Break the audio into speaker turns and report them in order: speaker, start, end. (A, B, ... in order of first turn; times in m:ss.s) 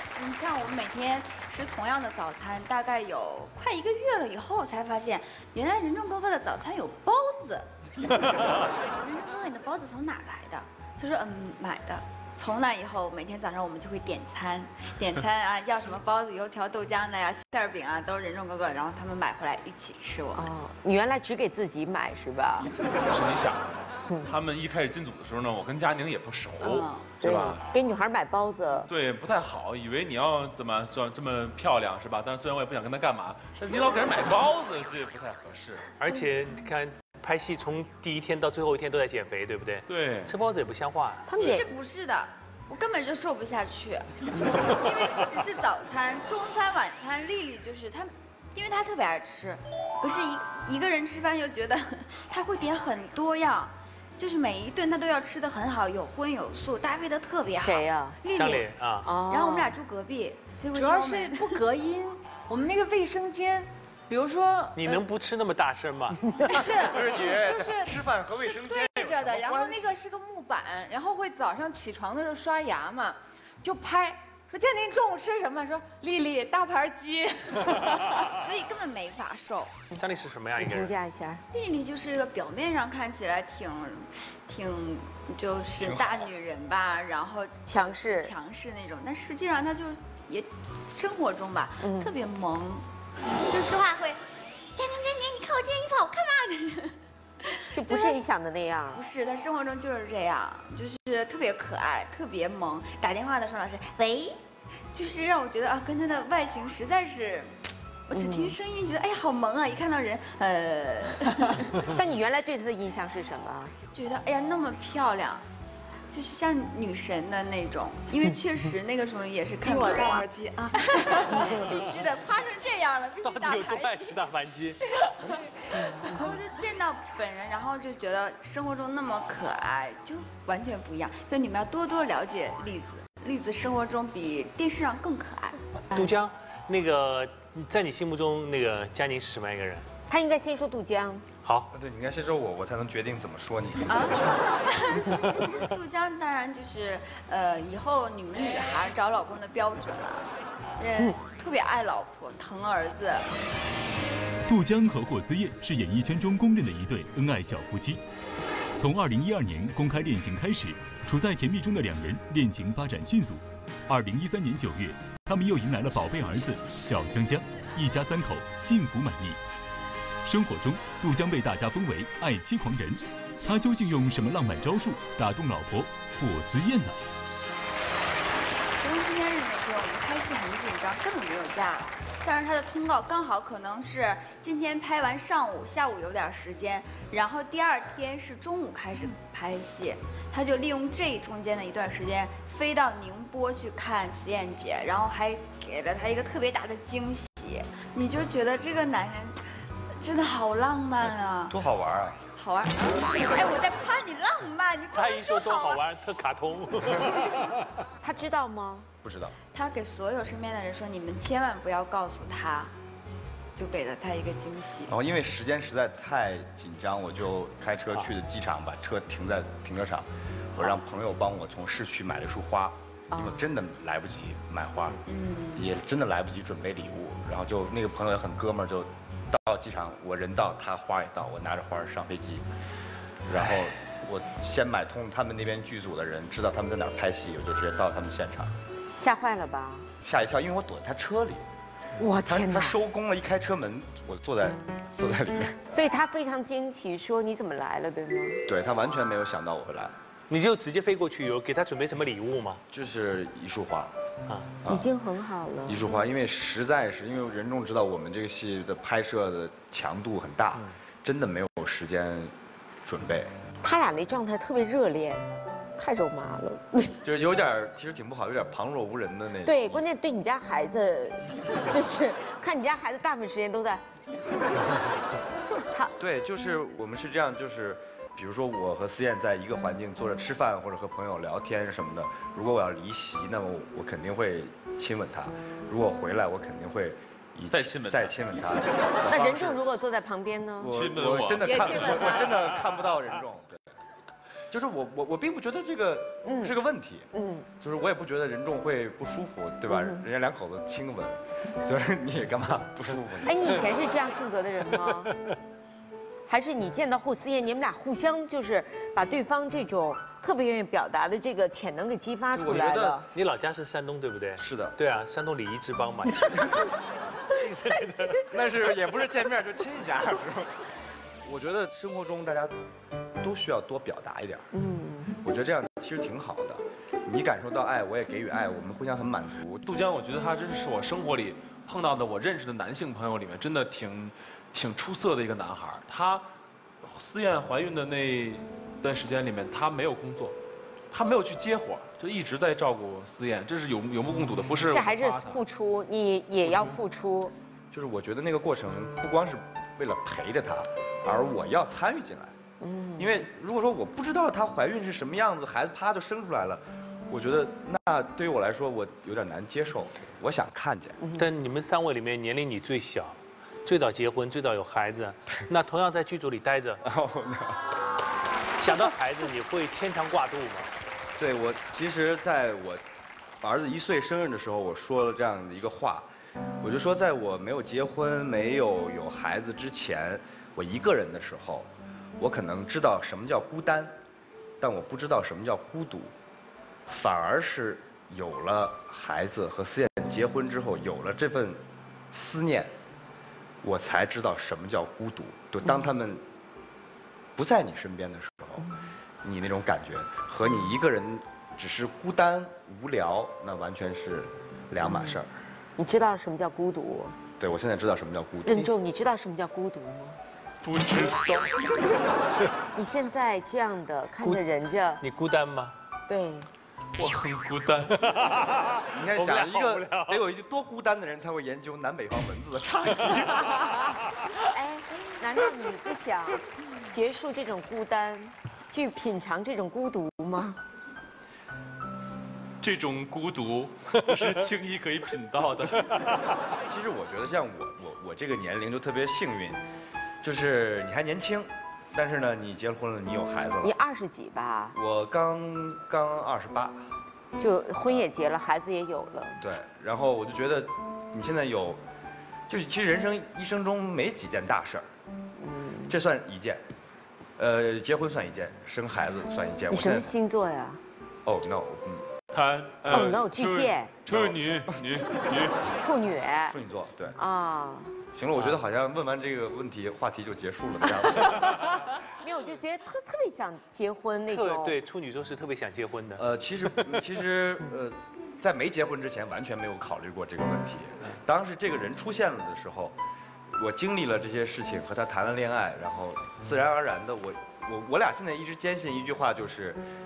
0:00.2-0:07.7 A
0:09.0-0:20.5 A
0:20.4-0:22.7 B
0:22.8-0:27.6 C
0:26.6-0:27.1 A
0:27.2-0:28.9 B
0:28.9-0:35.9 C
0:36.0-0:41.2 D
0:39.9-0:40.3 C
0:41.3-0:41.6 B
0:41.4-0:44.1 A
0:44.6-0:58.7 A
0:57.6-0:58.2 B
0:58.4-0:59.1 D
0:59.0-0:59.7 B
0:59.3-1:01.6 A
1:00.7-1:05.0 E
1:04.8-1:06.5 D
1:06.5-1:09.9 F
1:06.5-1:18.2 E
1:18.4-1:19.7 A
1:19.9-1:20.9 D
1:20.6-1:21.4 B
1:21.5-1:32.8 A
1:27.7-1:28.3 B
1:31.8-1:32.1 B
1:33.5-1:34.2 A
1:34.8-1:37.0 A
1:37.5-1:38.2 A
1:37.7-1:39.0 B
1:38.9-1:44.4 A
1:44.9-1:47.5 A
1:48.1-1:51.8 A
1:48.1-1:48.5 B
1:51.8-1:53.7 B
1:53.9-1:55.4 A
1:56.1-2:04.2 A
2:03.2-2:04.8 D
2:05.0-2:15.6 A
2:15.9-2:19.9 D
2:20.1-2:21.2 B
2:21.4-2:21.7 D
2:21.7-2:24.1 F
2:23.9-2:33.2 A
2:34.5-2:38.0 G
2:38.8-2:49.4 G
2:50.2-2:57.0 G
2:58.8-3:19.4 A
3:20.0-3:21.6 A
3:21.5-3:22.2 F
3:22.3-3:25.8 A
3:24.9-3:27.6 D
3:28.0-3:28.9 B
3:29.0-3:29.4 F
3:29.5-3:32.7 A
3:33.6-3:34.9 A
3:34.9-3:45.0 F
3:43.1-3:43.4 B
3:45.1-3:45.7 A
3:45.6-3:52.4 F
3:53.3-3:58.5 F
3:59.0-3:59.8 B
4:00.0-4:01.4 F
4:02.0-4:02.7 B
4:02.2-4:05.6 F
4:05.7-4:08.4 B
4:08.5-4:09.9 F
4:10.3-4:12.6 D
4:12.7-4:13.9 F
4:14.3-4:14.6 D
4:14.6-4:14.9 F
4:14.7-4:15.7 B
4:15.6-4:22.3 F
4:22.8-4:23.4 F
4:23.6-4:25.2 B
4:25.8-4:27.0 B
4:27.0-4:29.8 F
4:29.4-4:33.8 B
4:36.0-4:49.6 F
4:47.5-4:48.5 C
4:49.1-4:50.7 B
4:50.6-4:53.6 F
4:50.7-4:52.2 C
4:54.5-4:57.1 F
4:56.2-4:56.5 B
4:57.1-4:57.4 B
4:57.6-5:03.7 F
4:59.7-5:00.0 B
5:03.2-5:05.1 B
5:06.3-5:13.0 B
5:12.3-5:13.0 F
5:12.9-5:16.6 D
5:14.4-5:14.8 F
5:17.3-5:18.2 D
5:18.3-5:20.6 F
5:21.2-5:22.5 F
5:23.2-5:24.5 F
5:24.5-5:25.1 B
5:25.2-5:29.6 F
5:29.6-5:36.2 C
5:36.8-5:40.3 C
5:40.9-5:45.4 C
5:44.7-5:47.3 B
5:46.4-5:46.8 C
5:47.7-5:52.3 F
5:52.6-5:53.1 B
5:53.0-6:01.0 F
6:01.1-6:06.8 D
6:06.8-6:07.7 F
6:08.6-6:10.7 D
6:11.2-6:12.8 F
6:13.4-6:16.1 F
6:16.6-6:23.9 F
6:24.6-6:26.1 F
6:26.9-6:32.7 F
6:33.6-6:36.2 F
6:37.4-6:38.7 F
6:39.2-6:45.3 F
6:45.8-6:47.2 B
6:47.4-6:48.7 F
6:48.4-6:50.2 B
6:50.6-6:51.6 C
6:52.7-6:55.0 B
6:55.0-6:55.7 D
6:56.1-6:56.5 B
6:57.0-6:58.0 C
6:58.9-7:03.9 F
6:59.2-7:00.1 D
7:04.5-7:10.6 B
7:12.6-7:16.1 C
7:16.6-7:19.6 F
7:20.2-7:23.8 F
7:23.6-7:24.7 B
7:24.7-7:26.8 F
7:27.4-7:29.4 B
7:29.4-7:31.8 F
7:32.5-7:34.8 F
7:35.4-7:35.9 B
7:35.9-7:36.6 F
7:37.4-7:40.2 F
7:39.7-7:40.8 B
7:41.2-7:42.1 F
7:42.3-7:45.7 C
7:42.9-7:44.0 B
7:44.1-7:44.4 F
7:45.8-7:46.5 B
7:46.5-7:47.2 F
7:47.1-7:48.0 B
7:48.1-7:51.8 F
7:52.2-7:54.8 B
7:54.3-7:56.2 D
7:56.2-8:03.0 F
8:03.5-8:09.8 F